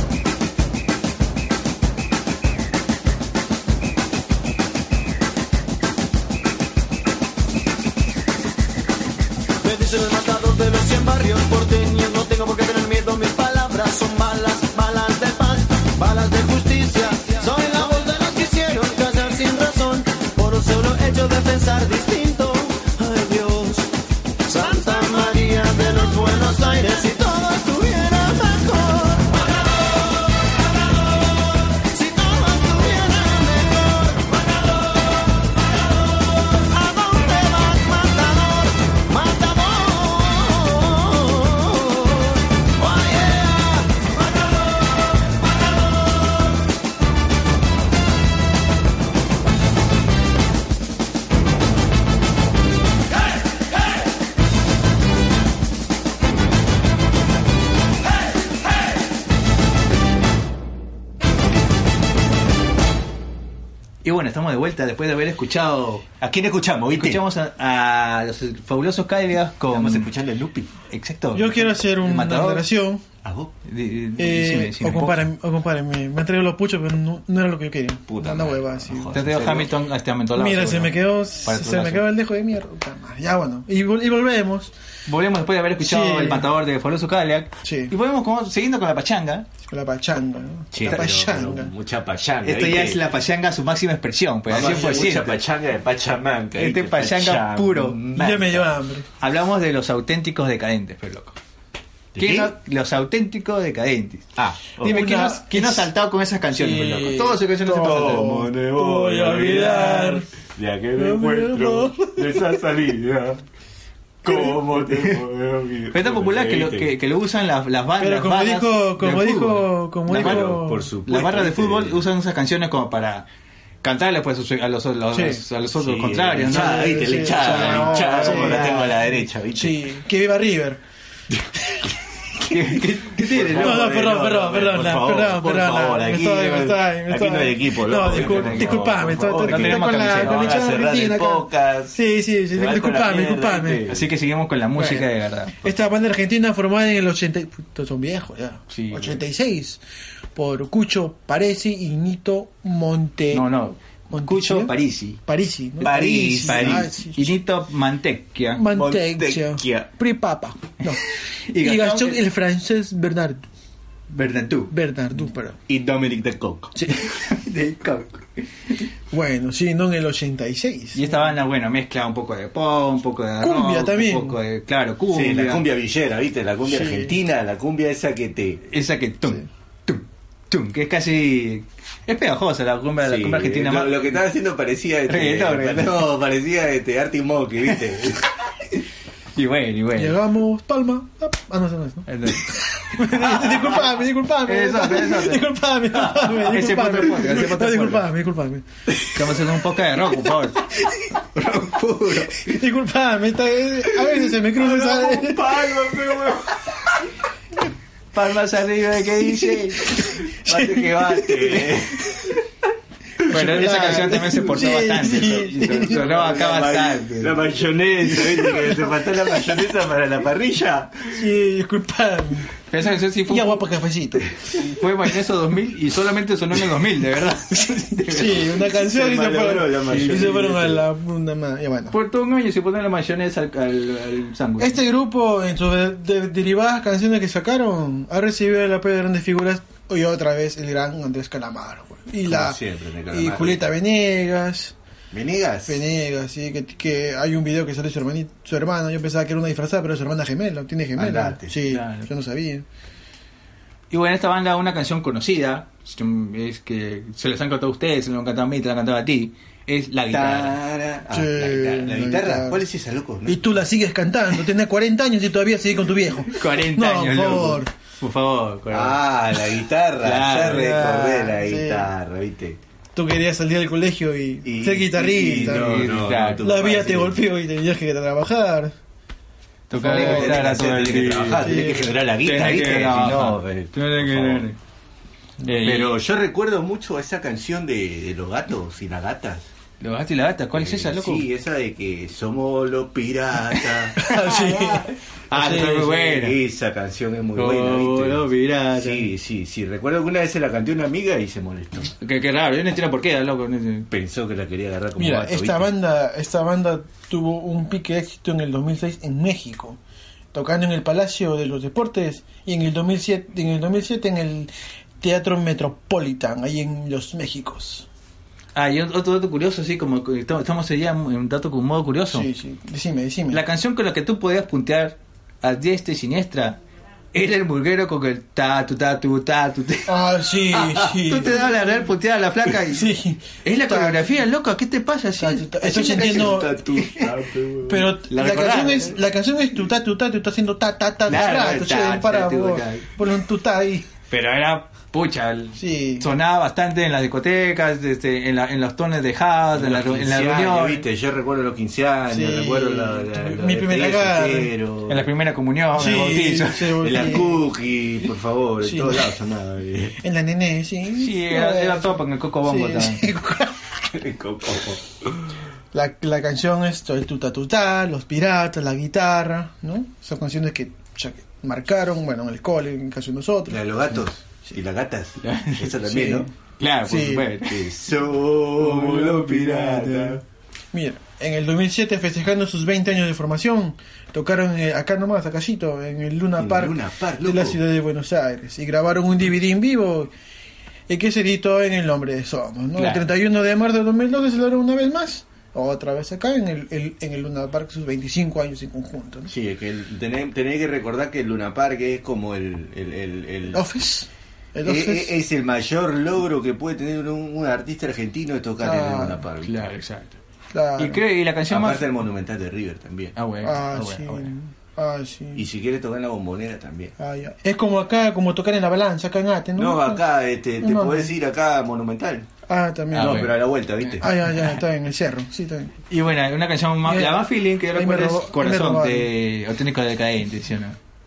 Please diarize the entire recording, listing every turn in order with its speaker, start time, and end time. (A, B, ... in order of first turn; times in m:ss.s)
0:09.6-0:23.9 A
0:24.5-0:29.6 A
0:31.7-0:34.6 A
0:36.6-0:44.1 A
1:04.0-1:06.1 B
1:06.2-1:07.2 C
1:06.9-1:10.1 B
1:09.7-1:10.7 C
1:10.9-1:12.6 B
1:11.3-1:13.0 D
1:13.2-1:13.5 C
1:13.6-1:15.2 B
1:14.2-1:19.2 D
1:18.1-1:19.7 C
1:19.1-1:22.0 B
1:20.3-1:24.7 D
1:25.1-1:29.5 B
1:25.8-1:26.5 D
1:27.6-1:27.9 D
1:29.7-1:31.7 D
1:30.7-1:33.0 C
1:32.4-1:35.4 B
1:34.5-1:38.7 C
1:36.6-1:38.0 B
1:38.1-1:39.0 D
1:39.2-1:41.4 B
1:42.1-1:42.5 C
1:42.2-1:48.3 B
1:44.4-1:45.1 C
1:44.8-1:45.8 D
1:46.5-1:50.2 D
1:47.7-1:53.4 C
1:49.6-1:50.1 B
1:51.0-1:52.6 D
1:54.2-1:56.9 C
1:55.9-2:03.3 B
1:58.0-2:00.9 D
2:00.1-2:02.0 C
2:03.8-2:08.9 B
2:05.1-2:05.4 D
2:05.8-2:09.8 C
2:06.5-2:10.8 D
2:12.4-2:13.9 B
2:13.2-2:22.0 C
2:13.6-2:23.8 D
2:18.0-2:20.6 B
2:22.5-2:24.1 C
2:23.9-2:25.6 B
2:24.8-2:25.1 D
2:25.6-2:29.8 D
2:28.7-2:29.2 B
2:30.3-2:33.4 D
2:33.3-2:35.2 B
2:34.1-2:37.4 D
2:35.8-2:36.9 C
2:36.1-2:38.7 B
2:38.5-2:41.0 D
2:38.7-2:39.9 C
2:41.5-2:42.2 B
2:41.6-2:43.4 D
2:44.1-2:44.7 B
2:44.7-2:45.6 D
2:45.7-2:46.7 C
2:46.7-2:47.1 D
2:47.0-2:48.4 B
2:49.1-2:51.3 D
2:50.9-2:55.6 B
2:53.4-2:54.4 D
2:55.1-2:58.6 C
2:56.6-2:57.1 D
2:58.6-3:04.2 B
3:03.0-3:08.3 C
3:05.1-3:06.0 B
3:07.7-3:08.2 B
3:09.3-3:10.2 B
3:10.0-3:18.6 D
3:12.1-3:13.7 B
3:14.4-3:18.0 B
3:19.0-3:20.6 B
3:21.3-3:22.6 B
3:22.4-3:25.4 D
3:24.5-3:26.6 C
3:28.1-3:30.1 B
3:30.3-3:31.6 D
3:30.3-3:32.3 C
3:33.2-3:36.3 D
3:33.3-3:37.4 B
3:35.8-3:41.2 C
3:38.4-3:38.8 D
3:41.1-3:42.5 D
3:42.7-3:43.7 B
3:43.3-3:44.4 D
3:44.5-3:48.5 B
3:47.9-3:51.9 D
3:48.6-3:50.8 C
3:49.9-3:50.3 B
3:51.9-3:54.8 B
3:54.6-4:02.6 D
4:02.3-4:03.6 C
4:03.1-4:04.7 D
4:05.1-4:05.8 C
4:05.7-4:12.6 D
4:11.0-4:11.5 C
4:11.7-4:12.1 B
4:13.9-4:20.6 B
4:20.1-4:23.5 C
4:21.1-4:22.6 D
4:23.2-4:27.7 D
4:26.3-4:29.0 B
4:28.7-4:32.6 C
4:30.0-4:31.0 B
4:30.5-4:31.9 D
4:32.9-4:35.8 D
4:34.4-4:37.2 C
4:35.5-4:36.4 B
4:36.4-4:38.7 D
4:39.7-4:41.6 B
4:39.7-4:44.5 C
4:39.7-4:40.4 D
4:41.4-4:41.9 D
4:42.2-4:44.6 B
4:45.4-4:46.0 B
4:45.6-4:49.4 C
4:49.8-4:51.3 B
4:50.5-4:54.1 C
4:54.0-4:54.9 D
4:54.1-4:56.4 B
4:55.3-5:01.9 C
4:57.4-4:59.1 B
5:02.0-5:03.9 B
5:03.9-5:05.7 C
5:05.0-5:09.8 D
5:10.3-5:17.8 D
5:18.5-5:22.3 B
5:22.1-5:23.4 D
5:23.3-5:26.6 B
5:27.1-5:30.0 B
5:29.9-5:31.7 D
5:30.5-5:32.9 B
5:32.7-5:34.2 D
5:33.4-5:36.4 B
5:35.2-5:36.9 D
5:35.7-5:37.9 C
5:37.7-5:43.9 D
5:38.1-5:39.0 B
5:41.1-5:42.9 B
5:44.1-5:50.8 B
5:45.6-5:46.1 D
5:49.5-5:55.1 C
5:52.1-5:54.5 D
5:54.9-5:56.9 B
5:55.8-5:57.4 D
5:56.8-6:00.0 C
5:58.6-5:59.1 D
6:00.0-6:03.6 D
6:00.9-6:03.1 B
6:03.9-6:04.9 C
6:05.7-6:13.6 D
6:13.5-6:16.3 C
6:15.2-6:15.7 B
6:15.8-6:16.3 D
6:16.6-6:17.7 B
6:16.8-6:17.3 D
6:17.4-6:20.2 C
6:18.6-6:20.2 B
6:19.2-6:20.0 D
6:20.7-6:30.1 D
6:26.4-6:27.6 C
6:30.9-6:39.3 D
6:32.8-6:33.0 B
6:39.3-6:43.6 C
6:43.5-6:45.1 D
6:44.6-6:49.7 C
6:48.6-6:49.2 D
6:49.4-6:50.2 B
6:50.5-6:51.0 D
6:50.8-6:51.9 B
6:51.5-6:53.1 C
6:53.2-6:54.3 B
6:53.4-6:55.4 D
6:55.3-6:56.9 C
6:57.0-7:00.0 D
6:59.6-7:02.3 C
7:00.6-7:01.1 D
7:02.5-7:03.3 D
7:02.9-7:04.5 B
7:02.9-7:04.1 C
7:04.0-7:05.7 D
7:05.9-7:10.8 B
7:06.8-7:09.1 D